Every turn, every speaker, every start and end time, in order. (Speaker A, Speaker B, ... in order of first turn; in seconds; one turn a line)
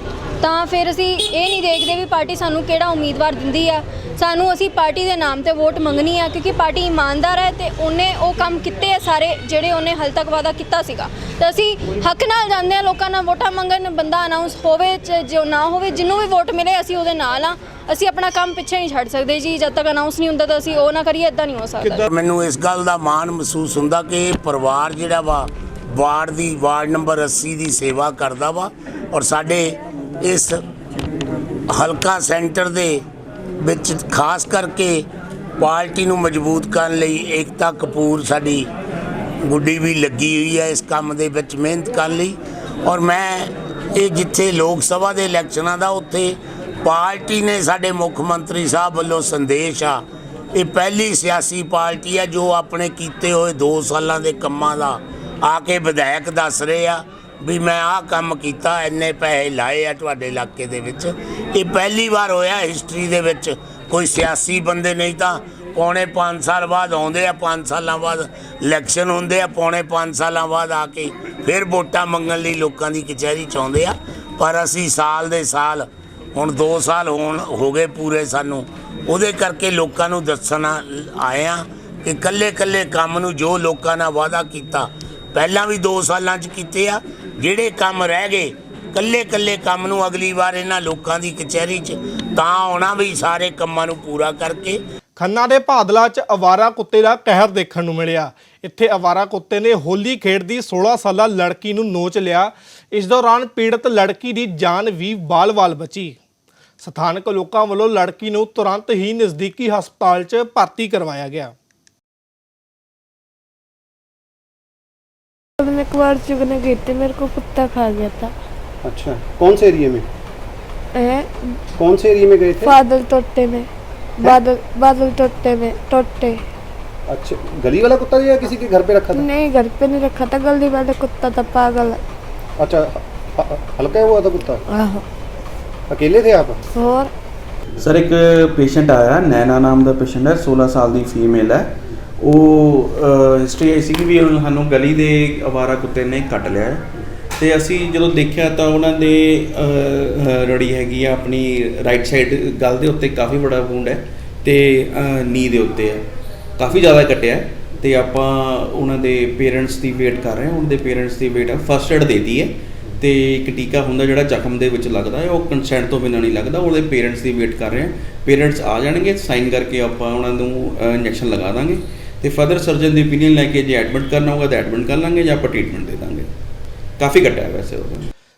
Speaker A: 0.4-22.1
Speaker B: 21.9-30.6
Speaker B: 31.7-33.0
Speaker B: 33.6-35.0
Speaker B: 35.6-38.7
Speaker B: 39.4-50.0
Speaker B: 50.5-94.8
Speaker C: 95.2-106.2
Speaker C: 106.8-111.5
Speaker D: 115.6-118.3
Speaker E: 118.8-120.0
Speaker D: 120.9-121.3
Speaker E: 121.8-122.7
Speaker D: 122.6-123.7
Speaker D: 124.2-126.4
Speaker E: 127.1-129.2
Speaker D: 129.1-132.0
Speaker E: 132.6-134.6
Speaker D: 134.7-135.0
Speaker E: 135.9-136.6
Speaker D: 136.7-137.1
Speaker F: 137.8-156.1
Speaker F: 156.6-176.3
Speaker F: 177.0-178.1